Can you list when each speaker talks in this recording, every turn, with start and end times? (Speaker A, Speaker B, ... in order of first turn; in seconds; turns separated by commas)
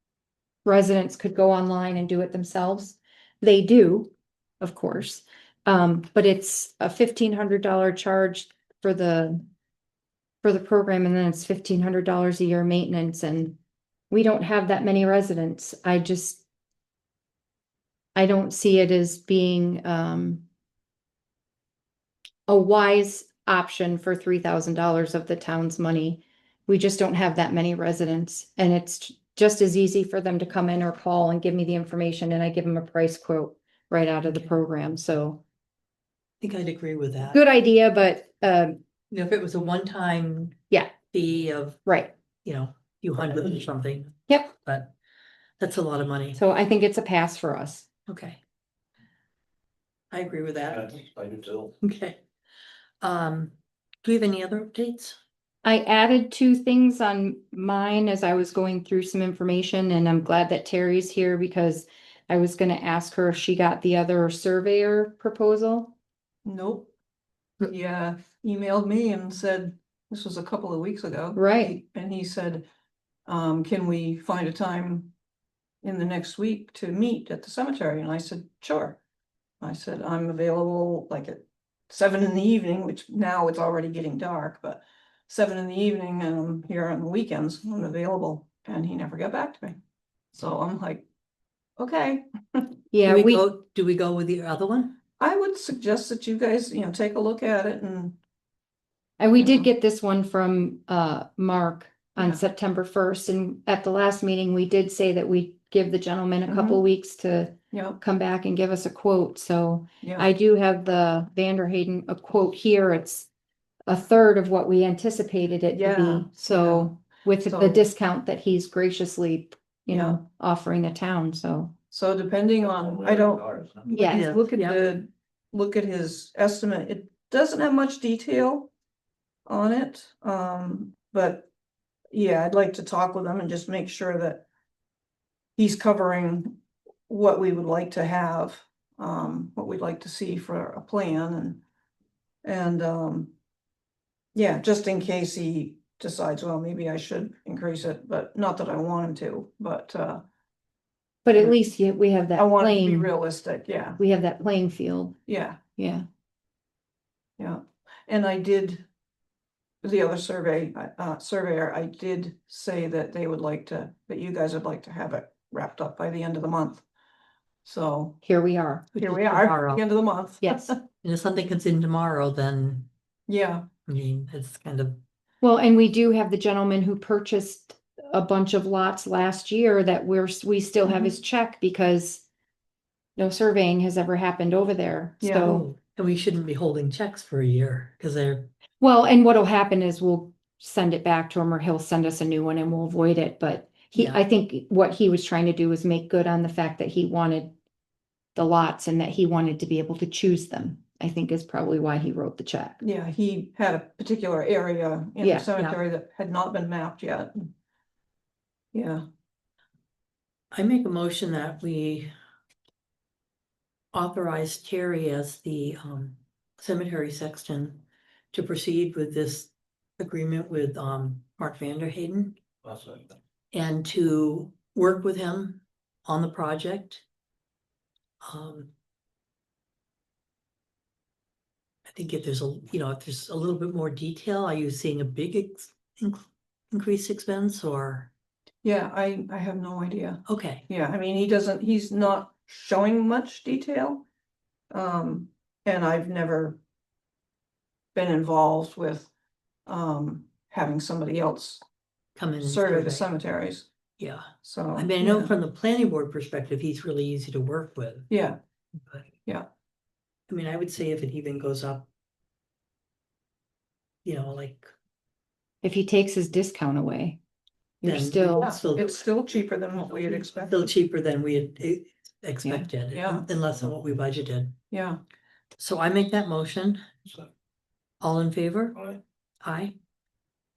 Speaker A: 0.7-9.5, Speaker A: 10.4-13.6, Speaker A: 14.1-16.4, Speaker A: 18.1-20.4, Speaker A: 22.5-35.4, Speaker B: 36.4-37.4, Speaker A: 37.3-38.8, Speaker B: 39.1-40.6, Speaker B: 41.1-41.8, Speaker A: 41.9-42.1, Speaker B: 42.5-44.9, Speaker B: 45.6-46.4, Speaker A: 46.4-47.9, Speaker B: 48.1-48.4, Speaker B: 50.1-52.2, Speaker B: 53.0-55.2, Speaker A: 55.6-65.9, Speaker C: 66.5-66.9, Speaker C: 67.6-72.6, Speaker A: 71.4-71.8, Speaker C: 73.3-75.1, Speaker C: 75.8-79.0, Speaker C: 79.6-89.8, Speaker C: 90.3-91.0, Speaker C: 91.8-92.7, Speaker A: 92.9-93.5, Speaker B: 93.1-95.0, Speaker C: 95.2-98.2, Speaker A: 99.2-113.3, Speaker C: 99.4-99.7, Speaker C: 106.5-106.8, Speaker C: 107.7-108.0, Speaker C: 110.0-110.3, Speaker A: 113.9-121.7, Speaker C: 115.7-117.8, Speaker C: 119.9-120.2, Speaker C: 121.9-128.7, Speaker A: 123.9-124.3, Speaker B: 124.0-124.8, Speaker C: 129.5-131.5, Speaker C: 132.1-134.5, Speaker C: 135.6-141.6, Speaker C: 142.4-143.3, Speaker C: 144.3-150.2, Speaker A: 151.2-153.1, Speaker C: 152.4-154.0, Speaker A: 154.0-155.2, Speaker C: 155.3-155.6, Speaker A: 155.8-156.1, Speaker C: 157.4-158.9, Speaker C: 159.8-166.8, Speaker C: 167.7-168.2, Speaker A: 168.2-168.9, Speaker B: 169.0-169.8, Speaker C: 169.0-170.8, Speaker A: 170.4-170.7, Speaker B: 171.0-172.9, Speaker C: 173.3-173.7, Speaker B: 173.9-175.0, Speaker A: 175.4-182.2, Speaker A: 183.2-185.6, Speaker C: 185.2-185.6, Speaker B: 185.4-188.5, Speaker A: 188.8-197.5, Speaker B: 193.9-194.2, Speaker A: 198.3-202.8, Speaker C: 202.8-207.5, Speaker A: 205.2-205.8, Speaker C: 208.7-209.0, Speaker B: 210.5-212.1, Speaker B: 213.9-222.4, Speaker B: 223.5-227.0, Speaker B: 228.2-228.7, Speaker B: 231.9-238.1, Speaker C: 238.6-244.1, Speaker B: 240.3-240.7, Speaker C: 244.7-246.6, Speaker C: 247.9-249.1, Speaker C: 249.7-251.6, Speaker B: 252.2-253.1, Speaker C: 252.4-253.7, Speaker B: 254.0-258.1, Speaker C: 254.4-255.3, Speaker C: 258.1-258.4, Speaker B: 260.3-261.9, Speaker B: 264.1-264.7, Speaker A: 265.6-267.2, Speaker A: 267.8-268.6, Speaker B: 267.8-269.0, Speaker C: 268.4-270.6, Speaker B: 270.4-274.6, Speaker C: 272.4-273.3, Speaker C: 274.7-275.0, Speaker B: 275.6-276.8, Speaker B: 278.0-279.8